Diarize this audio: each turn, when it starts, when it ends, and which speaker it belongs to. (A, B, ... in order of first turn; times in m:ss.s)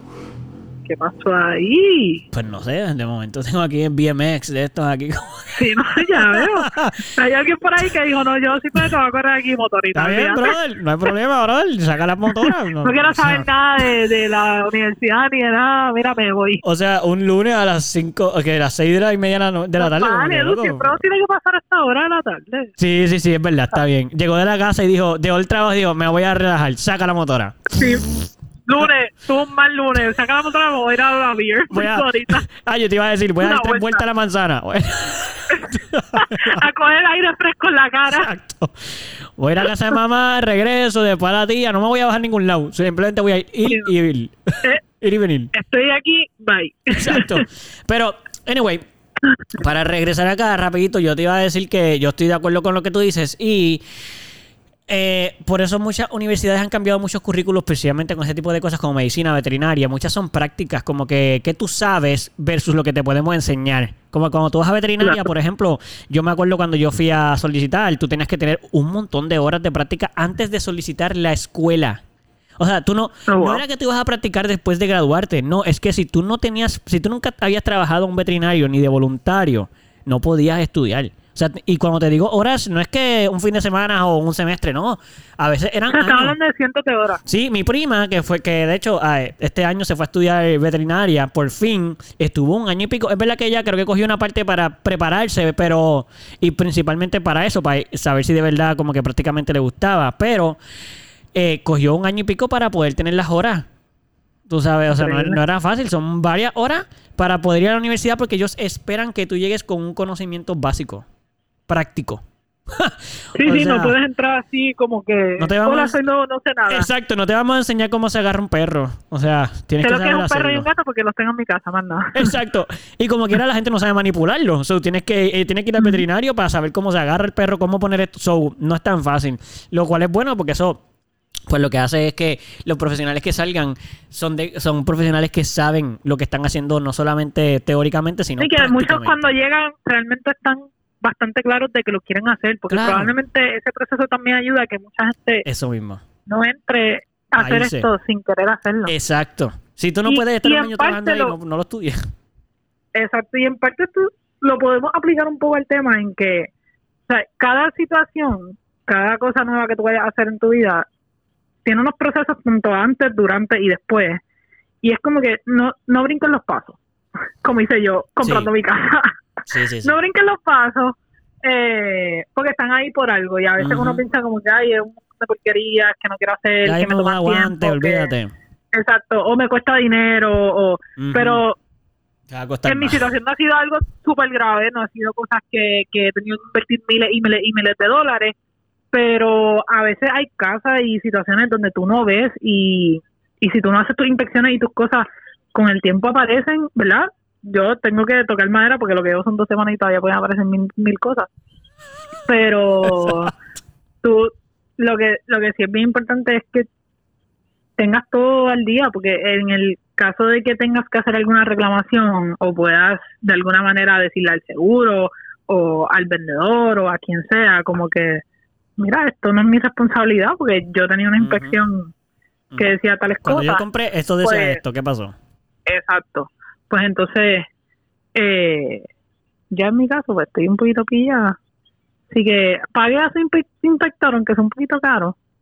0:00.8-0:02.2 A
0:02.3-0:07.1 B
0:05.5-0:10.6 A
0:09.9-0:13.5 B
0:12.4-0:16.6 A
0:16.6-0:21.0 B
0:19.8-0:22.7 A
0:22.8-0:27.8 B
0:27.8-0:28.0 A
0:28.6-0:32.4 A
0:31.7-0:36.6 B
0:33.4-0:34.0 A
0:35.5-0:38.3 A
0:38.1-0:45.5 B
0:45.5-0:47.4 A
0:46.9-0:48.8 B
0:49.5-0:53.8 B
0:54.9-1:12.0 B
1:12.6-1:26.3 B
1:13.3-1:13.6 A
1:25.9-1:27.2 A
1:27.2-1:40.6 B
1:41.3-1:43.7 B
1:44.5-1:51.0 B
1:44.9-1:45.4 A
1:51.7-1:53.9 B
1:53.4-1:56.9 A
1:55.4-1:56.0 B
1:56.7-2:00.7 B
1:59.8-2:02.3 A
2:02.1-2:10.8 B
2:05.8-2:06.0 A
2:11.5-2:19.3 B
2:18.4-2:25.4 A
2:22.7-2:23.1 B
2:25.4-2:26.0 B
2:26.2-2:28.9 A
2:27.4-2:27.9 B
2:28.9-2:32.0 B
2:30.0-2:31.3 A
2:32.9-2:36.5 A
2:37.1-2:40.9 A
2:41.6-2:44.2 A
2:44.8-2:46.8 A
2:47.4-2:49.1 A
2:48.2-2:48.5 B
2:49.5-2:50.0 B
2:49.8-2:58.1 A
2:53.6-2:54.0 B
2:56.6-2:58.3 B
2:58.7-3:01.6 A
3:01.0-3:01.4 B
3:02.3-3:03.1 B
3:02.6-3:08.3 A
3:08.9-3:21.3 A
3:22.2-3:23.3 A
3:24.0-3:26.7 A
3:27.8-3:38.2 A
3:38.8-3:41.9 A
3:41.2-3:41.6 B
3:42.6-3:43.6 A
3:43.2-3:45.1 B
3:44.2-3:44.6 A
3:45.6-3:47.5 A
3:48.1-3:48.9 A
3:49.5-3:51.4 A
3:52.1-3:55.2 A